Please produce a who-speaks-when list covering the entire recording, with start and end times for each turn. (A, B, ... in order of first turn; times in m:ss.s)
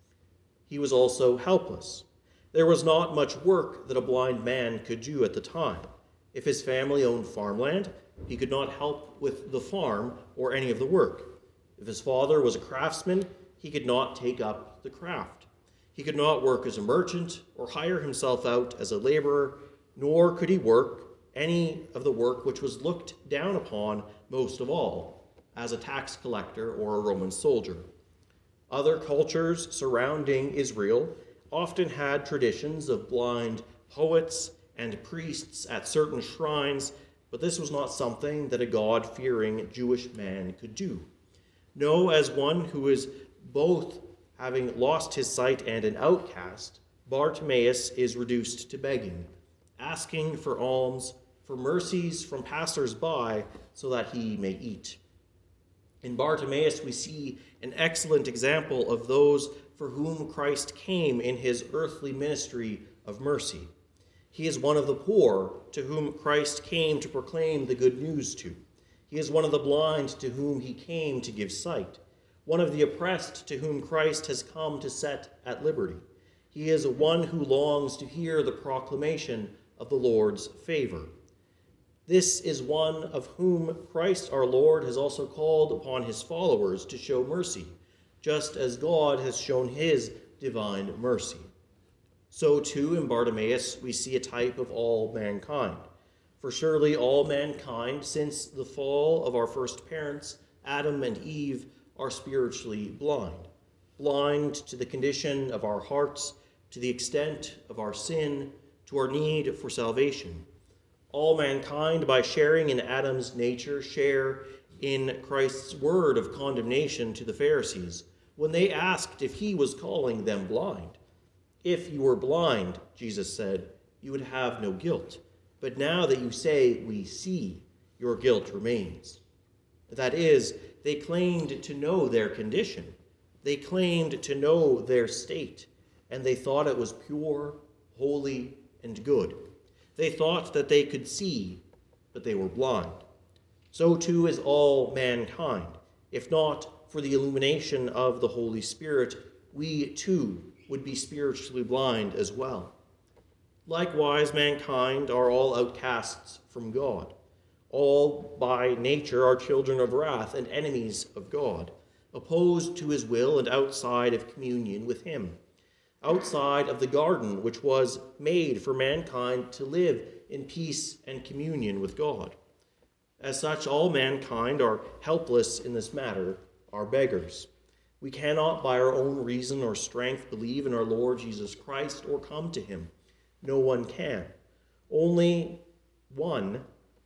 0:00.7-0:27.8 A
0:28.7-0:41.1 A
0:41.7-0:55.0 A
0:56.0-1:03.7 A
1:04.3-1:21.1 A
1:22.0-1:31.4 A
1:32.3-1:35.9 A
1:36.4-1:50.5 A
1:51.1-2:01.0 A
2:01.6-2:09.2 A
2:09.9-2:21.6 A
2:22.1-2:23.0 A
2:23.7-2:32.7 A
2:33.6-2:37.1 A
2:37.7-2:45.4 A
2:46.0-2:52.4 A
2:53.2-2:57.5 A
2:58.0-3:04.3 A
3:04.9-3:06.6 A